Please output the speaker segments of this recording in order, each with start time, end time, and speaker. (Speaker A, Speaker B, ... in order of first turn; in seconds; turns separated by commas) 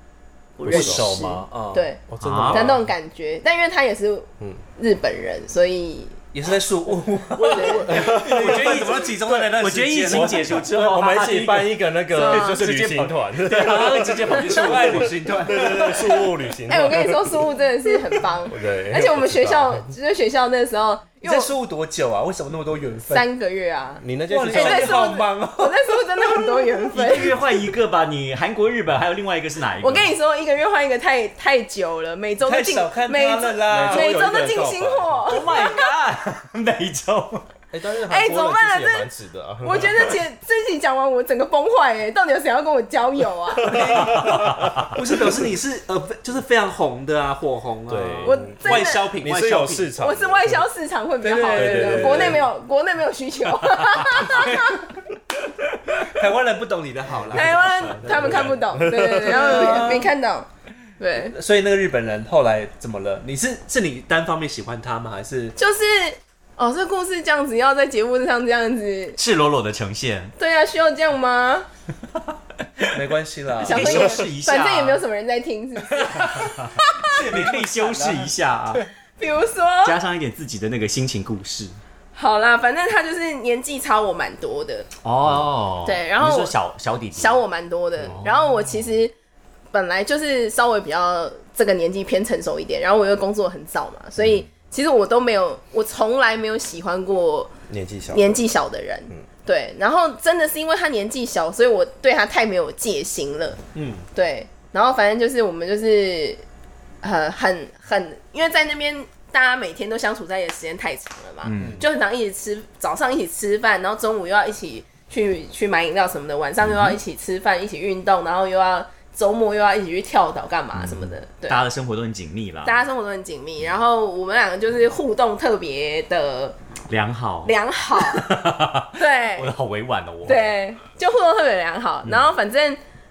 Speaker A: 0.6-6.2, Speaker B: 0.7-1.1, Speaker C: 0.7-1.9, Speaker B: 2.1-2.9, Speaker D: 2.2-2.7, Speaker C: 6.3-10.6, Speaker D: 7.4-15.2, Speaker A: 7.4-7.9, Speaker B: 7.6-9.0, Speaker B: 10.1-17.5, Speaker A: 12.1-12.6, Speaker C: 13.5-16.3, Speaker A: 16.7-21.5, Speaker B: 18.5-19.9, Speaker C: 21.2-23.3, Speaker A: 23.1-27.4, Speaker B: 24.0-25.1, Speaker C: 24.3-26.5, Speaker D: 26.9-30.1, Speaker A: 29.8-35.9, Speaker C: 32.4-34.3, Speaker B: 33.7-35.4, Speaker D: 35.3-37.5, Speaker B: 37.7-40.2, Speaker A: 38.1-39.1, Speaker A: 39.6-43.8, Speaker B: 43.6-44.9, Speaker C: 43.6-49.9, Speaker D: 44.0-44.9, Speaker B: 47.9-50.6, Speaker A: 48.2-49.1, Speaker A: 50.0-54.9, Speaker C: 51.2-52.4, Speaker B: 51.5-52.4, Speaker C: 54.2-54.8, Speaker C: 56.0-58.6, Speaker A: 57.3-60.5, Speaker B: 58.2-59.5, Speaker C: 59.1-60.1, Speaker A: 61.0-61.4, Speaker C: 61.3-65.5, Speaker A: 65.6-69.2, Speaker D: 69.2-70.3, Speaker A: 70.4-71.7, Speaker C: 72.9-74.2, Speaker D: 73.6-75.0, Speaker A: 73.6-77.2, Speaker C: 76.0-76.5, Speaker D: 76.3-78.8, Speaker C: 77.0-78.9, Speaker A: 79.2-80.0, Speaker D: 79.8-81.8, Speaker A: 82.2-84.9, Speaker D: 85.0-87.4, Speaker A: 85.8-86.5, Speaker A: 87.1-89.1, Speaker D: 88.0-88.5, Speaker A: 89.7-97.5, Speaker B: 97.7-98.3, Speaker A: 98.1-103.6, Speaker C: 103.8-104.1, Speaker A: 104.1-106.4, Speaker A: 107.0-121.6, Speaker D: 111.4-111.8, Speaker C: 111.6-111.8, Speaker D: 116.6-117.0, Speaker D: 121.5-122.8, Speaker A: 122.7-126.6, Speaker D: 126.9-130.5, Speaker A: 127.5-128.3, Speaker A: 129.0-129.5, Speaker A: 130.3-132.8